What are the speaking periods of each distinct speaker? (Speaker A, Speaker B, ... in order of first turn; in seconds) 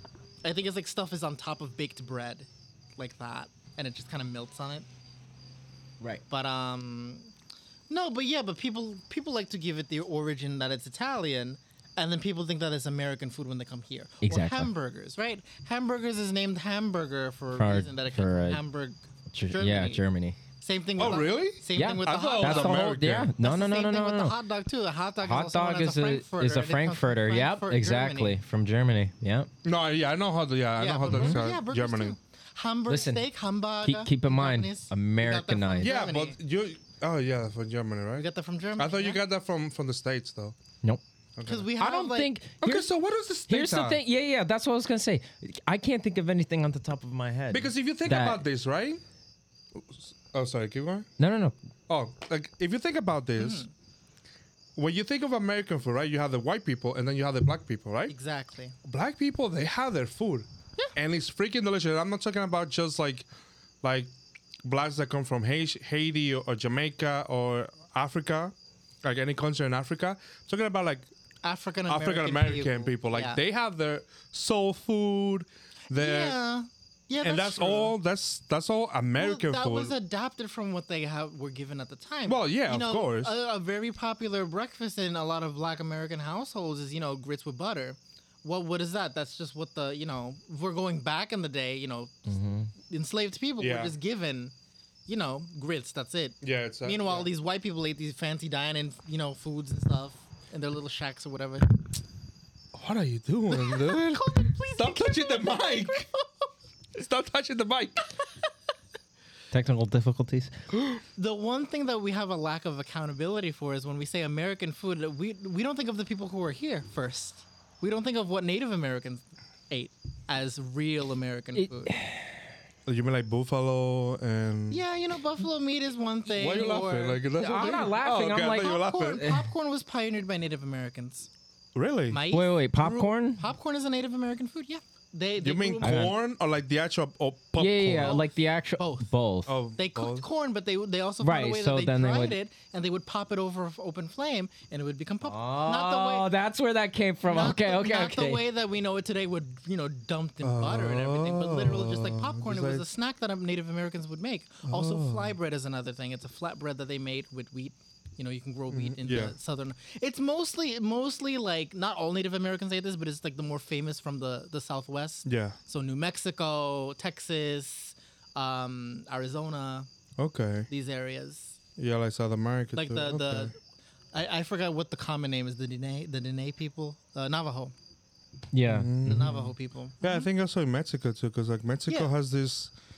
Speaker A: 0.4-4.9, 6.3-7.3, 7.9-19.0, 19.5-20.0, 20.6-28.4, 30.8-36.4, 38.2-39.2, 41.5-42.3, 53.4-53.7, 58.1-58.7, 71.4-73.4, 75.9-77.9, 79.2-92.2, 92.8-94.5, 95.1-101.8, 103.5-106.2, 111.2-121.9, 124.7-131.3, 132.1-136.1, 137.9-138.2, 138.8-139.1, 139.8-146.3, 147.2-169.9, 170.7-171.6, 172.7-173.5, 174.1-177.7, 179.0-180.3
Speaker B: 14.2-14.7, 17.6-18.6, 19.3-20.4, 21.7-24.3, 25.2-29.5, 31.1-31.4, 32.9-33.2, 33.8-35.9, 41.8-42.9, 43.5-48.4, 51.2-51.5, 92.3-92.7, 109.5-110.5, 121.5-122.3, 127.3-129.5, 132.3-133.4, 135.8-136.1, 137.6-139.6, 141.2-142.4, 145.2-148.4, 178.5-178.9
Speaker C: 21.0-23.3, 29.6-32.1, 35.8-38.2, 38.8-40.5, 41.4-41.7, 42.6-44.0, 47.5-49.0, 49.8-51.1, 51.9-53.6, 54.8-58.1, 58.8-63.2, 63.8-64.1, 64.6-71.1, 71.9-76.4, 77.2-79.9, 82.3-83.3, 93.6-93.9, 96.4-97.3, 102.7-106.1, 106.9-108.1, 110.7-111.0, 122.8-124.8, 126.3-129.3, 131.8-132.2, 135.4-138.2, 139.5-140.3, 150.4-152.8, 154.7-155.3, 158.7-159.3, 165.2-165.6, 170.2-170.7, 171.8-173.5, 178.7-182.7